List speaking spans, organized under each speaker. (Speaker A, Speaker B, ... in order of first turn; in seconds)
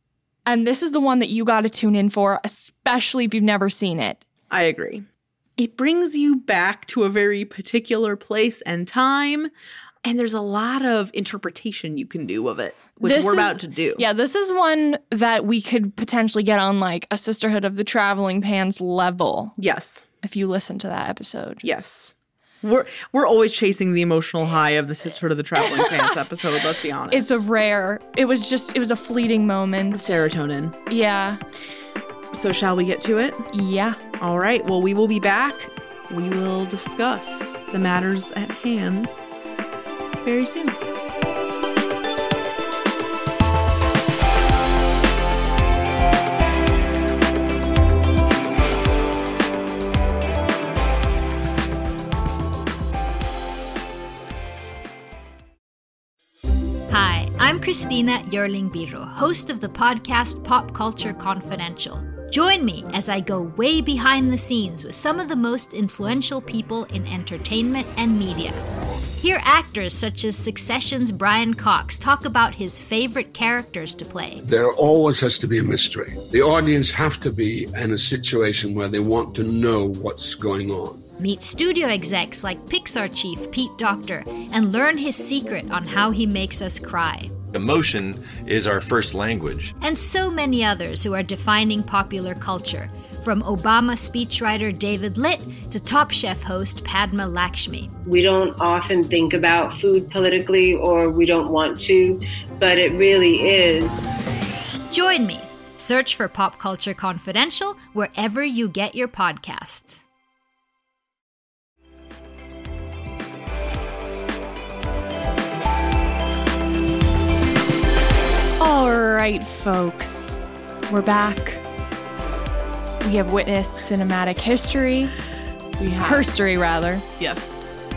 Speaker A: 0.5-4.2, 13.0-19.6, 20.2-21.6, 25.6-26.2, 27.1-30.3, 30.9-31.4, 33.5-34.0, 118.6-121.6, 123.0-125.1, 126.0-127.0
Speaker B: 4.5-5.0, 5.6-9.5, 10.0-14.1, 19.6-20.1, 21.6-27.4, 29.9-30.8, 32.3-33.5, 34.2-39.1, 40.2-40.8, 125.8-126.3, 127.2-127.5
Speaker C: 56.9-68.6, 69.2-74.4, 81.2-87.3, 89.8-98.0, 104.9-110.0
Speaker D: 74.4-81.1
Speaker E: 87.5-89.7
Speaker F: 98.0-104.0